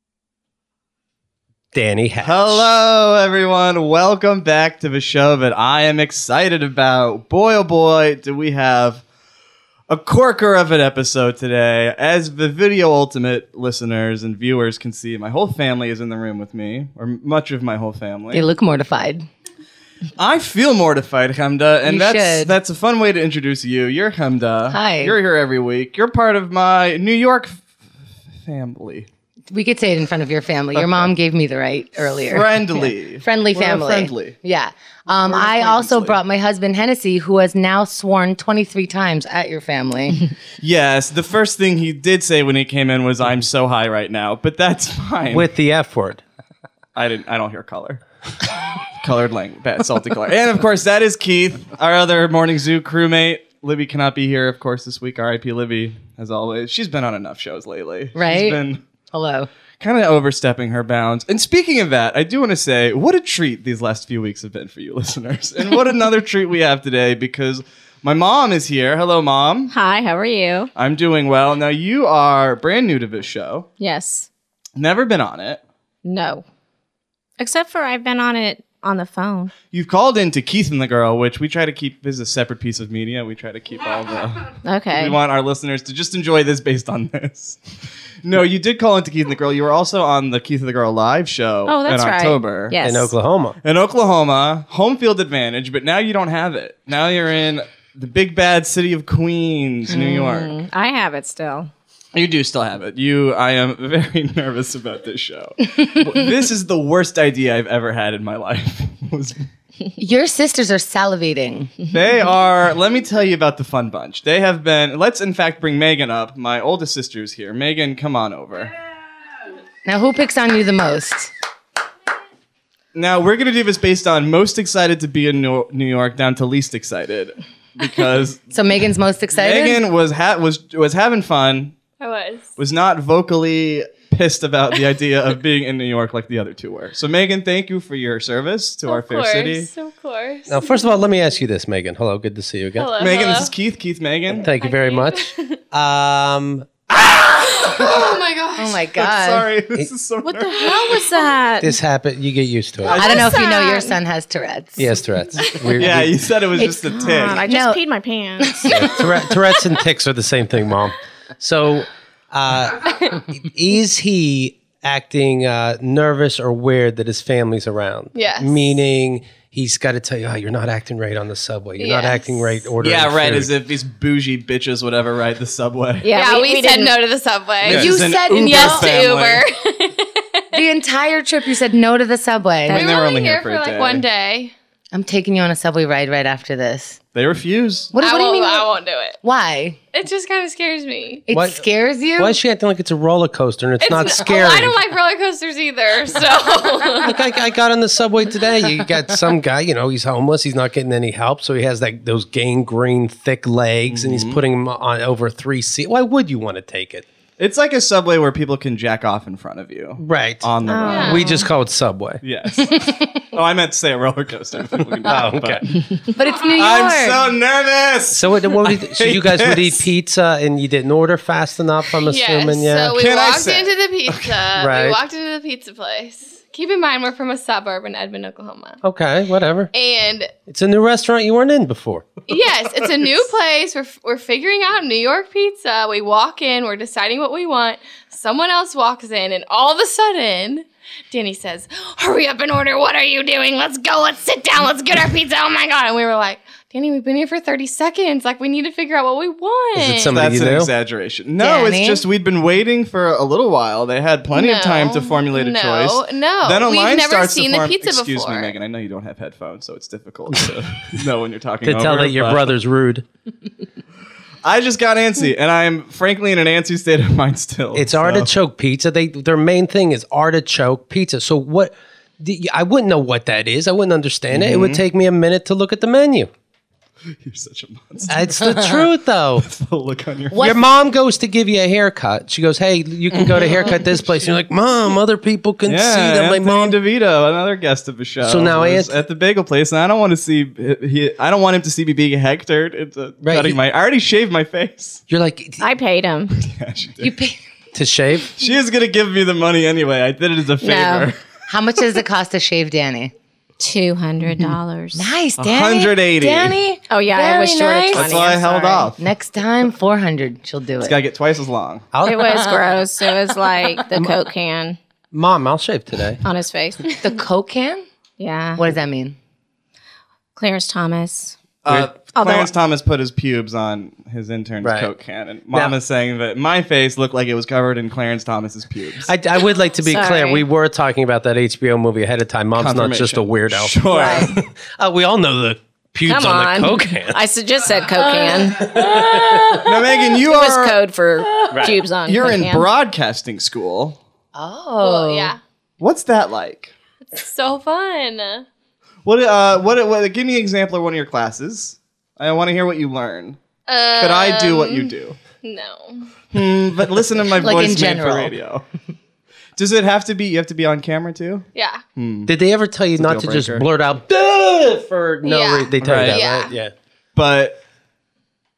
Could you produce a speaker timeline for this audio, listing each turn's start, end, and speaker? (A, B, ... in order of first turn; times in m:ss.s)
0:01.7-0:02.7 A
0:02.2-0:09.0 B
0:09.9-0:18.5 B
0:18.3-0:19.3 C
0:20.2-0:27.6 B
0:21.8-0:22.5 C
0:24.7-0:25.2 C
0:28.4-0:29.1 B
0:29.5-0:40.2 C
0:30.8-0:31.1 B
0:32.2-0:34.4 B
0:35.1-0:36.2 B
0:40.6-0:45.5 B
0:45.3-0:46.2 A
0:46.9-0:48.0 B
0:48.8-0:58.8 B
0:58.1-0:59.5 C
0:59.8-1:09.7 B
1:09.7-1:10.7 D
1:10.7-1:13.7 B
1:13.8-1:14.3 D
1:14.8-1:15.6 B
1:16.0-1:16.4 D
1:17.4-1:19.5 D
1:19.7-1:27.6 B
1:24.6-1:25.2 D
1:28.2-1:32.8 B
1:31.7-1:33.1 D
1:32.8-1:33.6 A
1:33.6-1:40.6 B
1:39.9-1:41.7 D
1:42.1-1:49.4 B
1:50.0-1:51.7 C
1:51.9-1:58.7 B
1:59.8-2:01.3 C
2:02.9-2:08.4 B
2:08.5-2:09.8 C
2:09.4-2:11.8 B
2:12.0-2:12.5 E
2:12.6-2:19.7 B
2:18.8-2:20.8 E
2:20.5-2:23.0 A
2:22.8-2:23.5 E
2:23.0-2:24.5 B
2:24.3-2:26.7 A
2:24.6-2:25.6 E
2:27.4-2:28.8 E
2:27.7-2:28.2 B
2:28.6-2:29.5 C
2:28.9-2:31.1 B
2:30.2-2:31.8 D
2:31.6-2:33.0 A
2:32.8-2:33.5 B
2:32.9-2:35.0 C
2:33.1-2:34.0 E
2:34.8-2:36.2 A
2:35.7-2:37.4 B
2:36.6-2:38.9 D
2:37.4-2:37.8 C
2:38.4-2:39.0 C
2:38.7-2:53.5 A
2:48.2-2:48.6 E
2:51.8-2:52.5 E
2:52.8-2:56.1 B
2:56.0-2:57.0 D
2:56.1-3:00.4 E
2:57.6-2:59.4 B
2:57.7-2:58.9 C
3:00.5-3:02.9 C
3:02.7-3:04.0 B
3:02.7-3:04.5 E
3:04.9-3:07.0 C
3:07.2-3:07.9 B
3:07.9-3:09.8 C
3:08.0-3:09.2 E
3:09.9-3:11.2 E
3:11.3-3:12.4 C
3:11.3-3:11.6 A
3:12.2-3:14.8 A
3:13.8-3:17.3 E
3:17.0-3:27.1 A
3:23.9-3:24.4 B
3:27.4-3:31.3 B
3:30.0-3:32.2 A
3:30.6-3:31.5 D
3:30.8-3:31.3 E
3:32.2-3:39.9 B
3:35.0-3:35.6 A
3:36.1-3:37.3 C
3:38.1-3:43.0 A
3:42.0-3:48.8 E
3:42.9-3:44.4 B
3:44.6-3:45.0 A
3:48.8-3:49.7 A
3:49.7-3:50.3 E
3:50.5-3:52.1 A
3:52.3-4:10.2 E
4:09.8-4:10.7 A
4:10.1-4:22.5 B
4:11.4-4:12.0 C
4:14.3-4:18.6 E
4:21.6-4:23.0 A
4:24.4-4:28.3 B
4:27.7-4:36.3 A
4:34.3-4:34.8 B
4:37.2-4:38.8 B
4:38.1-4:39.5 A
4:39.4-4:40.5 B
4:40.3-4:40.6 C
4:40.4-4:46.8 A
4:45.7-4:55.0 B
4:48.2-4:49.0 A
4:53.2-4:53.6 A
4:55.1-4:55.6 A
4:55.6-4:56.4 D
4:56.4-4:57.1 B
4:57.0-4:57.4 C
4:57.7-4:58.4 A
4:58.4-5:01.2 B
5:00.6-5:01.1 D
5:01.5-5:03.1 C
5:03.6-5:05.1 D
5:04.9-5:08.1 C
5:05.4-5:06.6 B
5:06.9-5:08.9 D
5:07.9-5:09.0 B
5:08.8-5:11.0 C
5:10.8-5:11.9 B
5:11.9-5:12.5 A
5:12.0-5:14.8 D
5:15.1-5:16.2 A
5:16.2-5:17.0 D
5:17.0-5:17.8 C
5:18.2-5:18.6 D
5:18.6-5:19.2 C
5:20.4-5:21.4 D
5:21.6-5:29.1 B
5:22.1-5:22.5 D
5:24.6-5:24.9 A
5:25.5-5:25.8 A
5:29.0-5:37.2 A
5:29.8-5:30.4 D
5:32.6-5:34.4 B
5:33.9-5:34.3 D
5:36.0-5:39.2 D
5:38.4-5:39.6 A
5:39.6-5:40.8 B
5:40.1-5:42.7 D
5:41.5-5:41.9 A
5:42.0-5:44.0 B
5:44.3-5:45.4 C
5:44.8-5:45.4 E
5:45.8-5:46.7 B
5:47.1-5:48.5 E
5:49.0-5:53.4 B
5:53.7-5:56.1 E
5:54.0-5:55.2 B
5:56.3-5:58.6 B
5:57.4-5:58.4 C
5:59.6-6:02.3 B
6:01.6-6:01.8 E
6:02.3-6:06.7 A
6:03.0-6:03.7 B
6:05.2-6:06.6 E
6:05.8-6:06.2 B
6:07.2-6:07.6 B